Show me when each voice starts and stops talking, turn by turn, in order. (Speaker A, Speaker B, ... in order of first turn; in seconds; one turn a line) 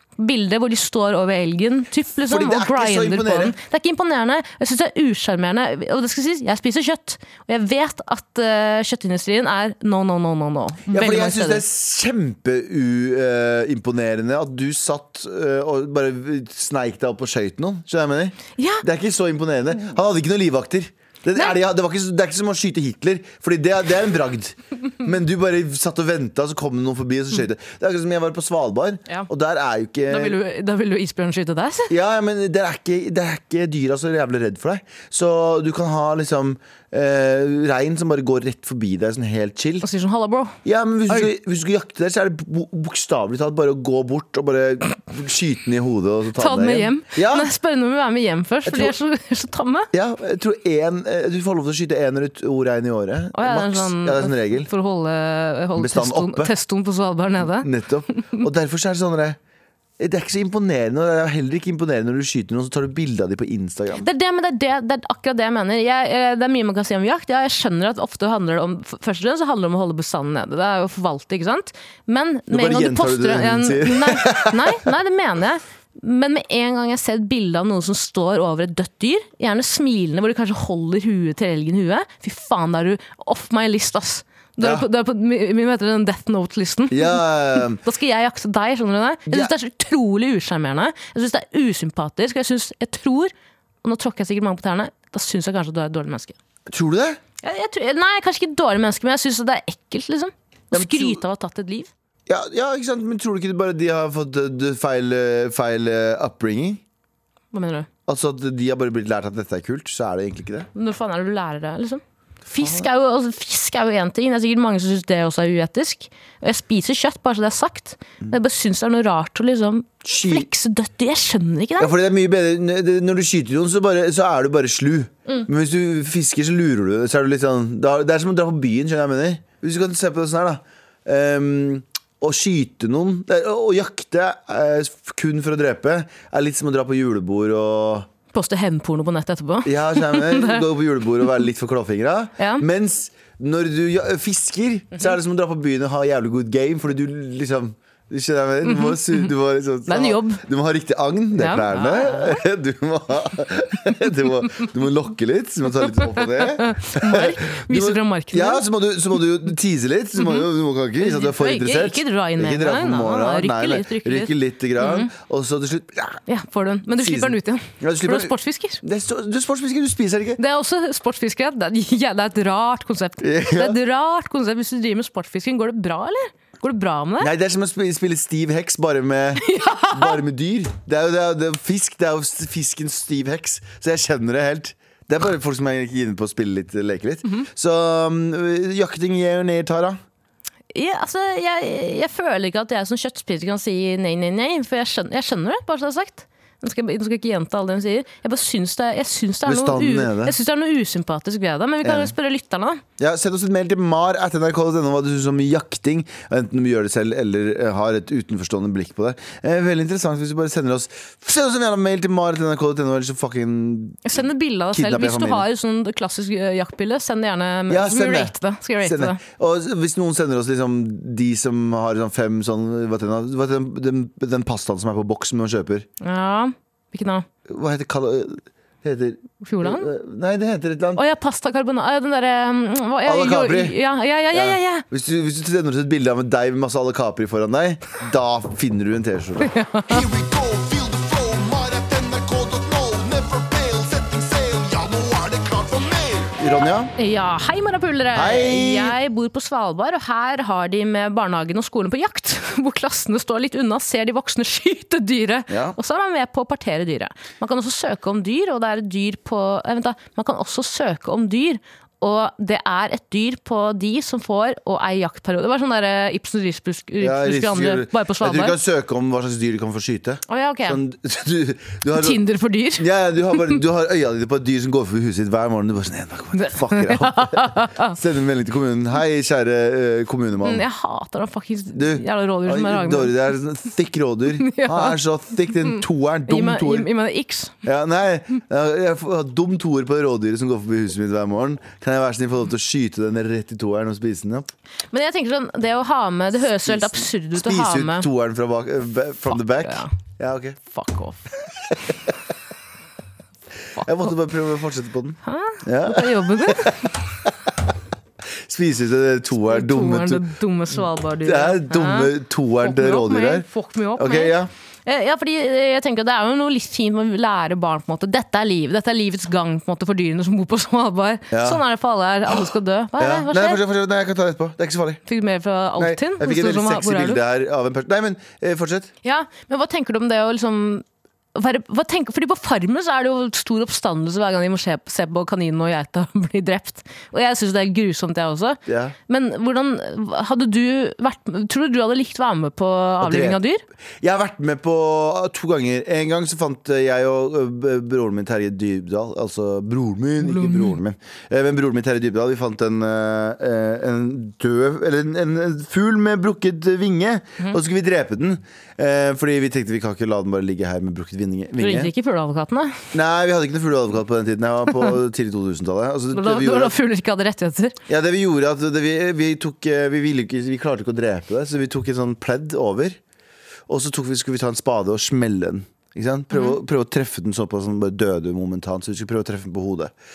Speaker A: 0.2-11.6
Speaker B: 2.2-3.6
Speaker B: 10.9-30.4
Speaker A: 18.6-18.8
Speaker A: 30.1-31.9
Speaker B: 31.9-39.9
Speaker A: 39.8-40.5
Speaker B: 40.6-47.5
Speaker A: 46.4-49.9
Speaker B: 48.6-48.9
Speaker B: 49.9-54.7
Speaker A: 53.3-58.4
Speaker B: 55.8-56.5
Speaker B: 57.4-59.4
Speaker B: 60.0-64.1
Speaker A: 64.0-93.3
Speaker B: 72.5-74.9
Speaker B: 84.6-84.9
Speaker B: 86.9-87.8
Speaker B: 89.3-89.5
Speaker A: 93.8-96.4
Speaker B: 96.7-97.2
Speaker A: 97.4-101.9
Speaker B: 100.7-101.2
Speaker B: 102.3-106.8
Speaker A: 107.5-107.9
Speaker B: 108.1-110.7
Speaker A: 110.8-121.9
Speaker B: 112.5-112.9
Speaker B: 120.0-120.5
Speaker B: 121.8-138.1
Speaker A: 138.3-140.7
Speaker B: 139.6-166.2
Speaker A: 142.4-142.6
Speaker A: 148.6-149.3
Speaker A: 149.9-150.4
Speaker A: 151.4-152.4
Speaker A: 156.1-158.6
Speaker A: 160.2-160.5
Speaker A: 161.0-165.1
Speaker A: 166.3-168.8
Speaker B: 166.9-170.4
Speaker A: 170.4-177.3
Speaker B: 173.2-173.8
Speaker B: 177.2-190.0
Speaker A: 179.4-180.2
Speaker A: 190.7-202.8
Speaker B: 199.4-200.4
Speaker B: 201.8-202.1
Speaker B: 203.0-214.1
Speaker A: 214.0-219.2
Speaker B: 214.7-215.5
Speaker B: 217.7-225.9
Speaker A: 226.0-227.2
Speaker B: 227.5-231.0
Speaker A: 229.4-229.9
Speaker A: 230.9-234.8
Speaker B: 233.0-233.8
Speaker B: 234.3-240.1
Speaker A: 239.4-240.1
Speaker C: 240.1-246.3
Speaker B: 246.3-246.9
Speaker A: 246.9-268.6
Speaker B: 248.1-248.9
Speaker B: 255.5-255.8
Speaker B: 267.0-272.2
Speaker A: 270.3-270.8
Speaker A: 271.9-273.6
Speaker B: 272.8-280.6
Speaker A: 276.3-277.9
Speaker A: 280.4-283.2
Speaker B: 281.8-286.9
Speaker A: 284.4-285.0
Speaker A: 285.5-287.5
Speaker B: 287.6-294.5
Speaker A: 294.9-298.1
Speaker B: 296.5-300.6
Speaker A: 299.3-299.9
Speaker A: 300.7-301.3
Speaker A: 303.8-304.1
Speaker B: 303.8-307.5
Speaker A: 305.2-306.9
Speaker B: 308.4-310.3
Speaker A: 309.4-323.6
Speaker B: 311.2-314.5
Speaker B: 321.3-321.6
Speaker B: 323.0-325.0
Speaker A: 325.1-327.2
Speaker B: 325.8-328.9
Speaker A: 329.0-343.6
Speaker B: 338.6-338.9
Speaker B: 343.0-343.4
Speaker B: 344.0-361.9
Speaker A: 350.2-350.8
Speaker A: 361.6-362.8
Speaker B: 362.9-366.8
Speaker A: 366.1-367.8
Speaker B: 367.9-373.0
Speaker B: 373.7-379.9
Speaker A: 376.3-376.6